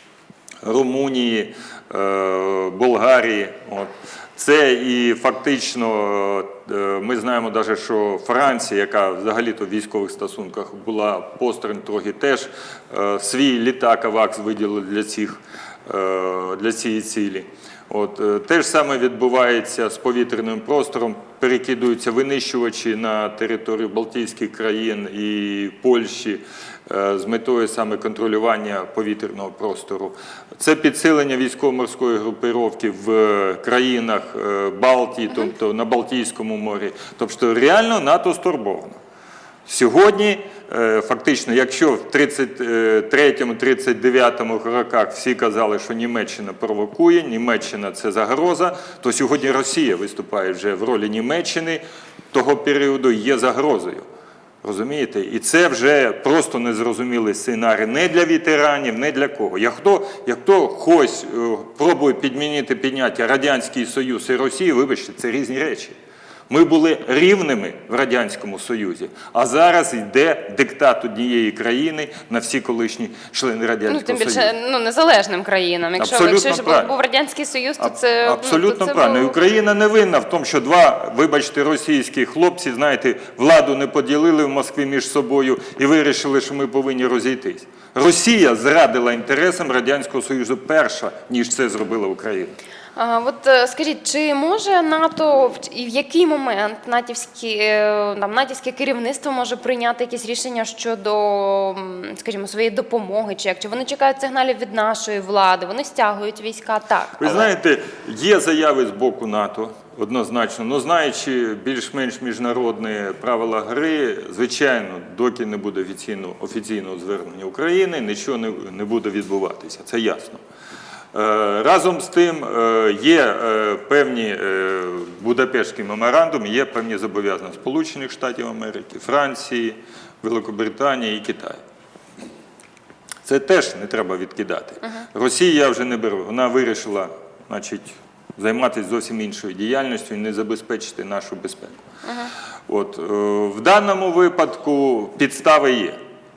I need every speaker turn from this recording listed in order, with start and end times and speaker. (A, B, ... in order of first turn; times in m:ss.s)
0:00.6-0:39.0 A
0:39.6-0:54.0 A
0:54.6-1:06.0 A
1:06.5-1:14.5 A
1:13.9-1:19.3 B
1:16.0-1:16.9 A
1:17.8-1:32.6 A
1:33.0-1:47.5 B
1:47.2-2:00.4 A
2:01.1-2:11.6 A
2:13.2-2:21.8 A
2:22.0-2:22.3 B
2:22.7-2:26.0 A